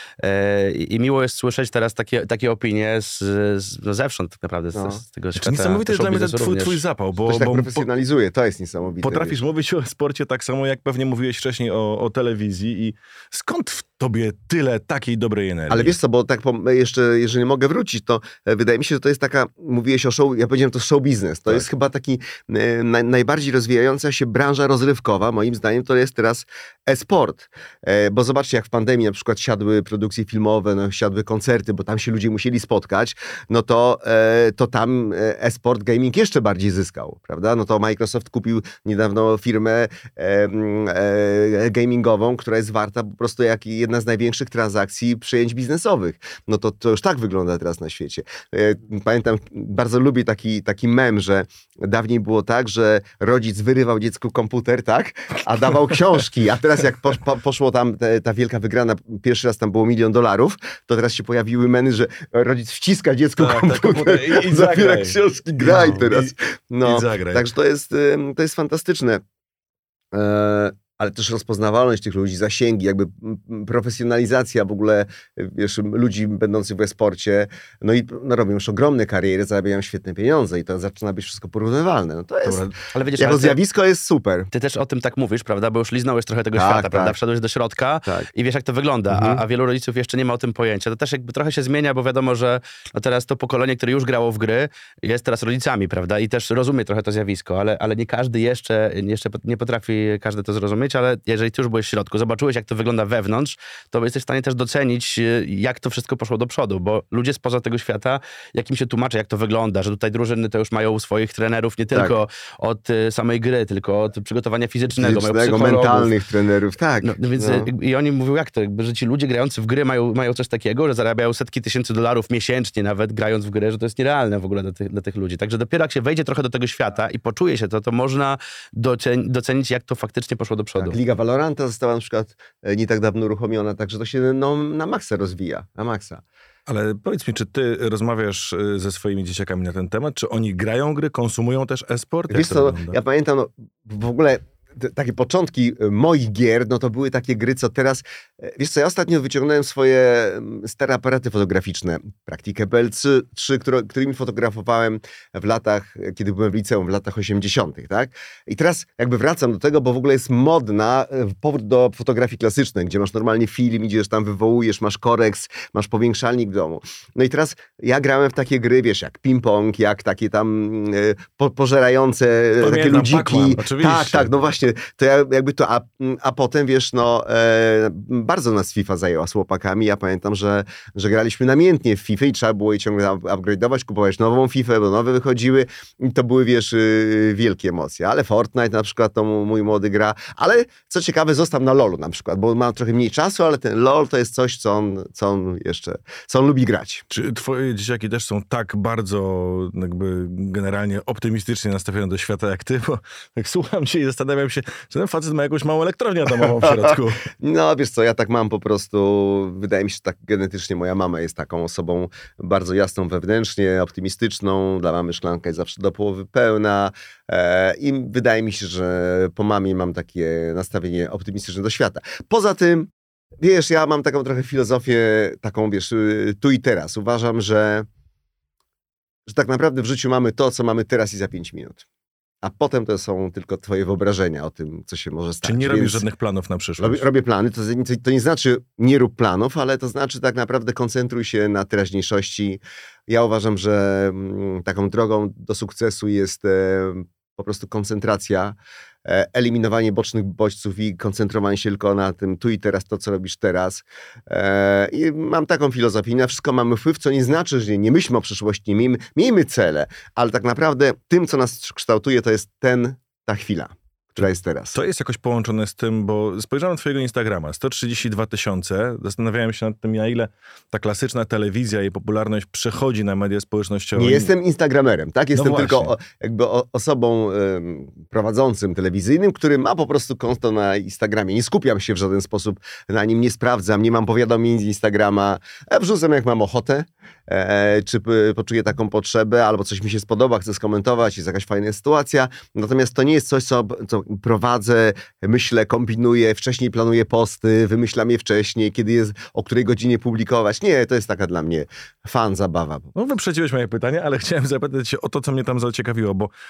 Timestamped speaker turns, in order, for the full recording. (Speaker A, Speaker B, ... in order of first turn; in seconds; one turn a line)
Speaker A: 0.2-6.8
Speaker B: 4.7-5.0
Speaker C: 5.3-7.8
Speaker B: 7.2-9.4
Speaker C: 9.0-16.0
Speaker B: 15.7-69.2
Speaker C: 63.4-67.5
Speaker B: 70.1-82.7
Speaker C: 82.4-82.8
Speaker A: 82.9-83.6
Speaker B: 83.2-84.5
Speaker A: 84.5-116.1
Speaker B: 86.6-87.2
Speaker B: 89.1-89.4
Speaker B: 115.0-117.7
Speaker A: 117.0-131.0
Speaker B: 130.8-136.2
Speaker C: 136.7-143.0
Speaker B: 142.3-197.1
Speaker C: 172.6-174.3
Speaker C: 197.1-207.3
Speaker B: 206.6-227.9
Speaker B: 229.3-231.8
Speaker B: 232.4-236.1
Speaker C: 235.4-237.1
Speaker B: 236.8-264.8
Speaker C: 264.8-274.3
Speaker B: 274.0-302.9
Speaker C: 275.3-275.9
Speaker C: 302.9-306.3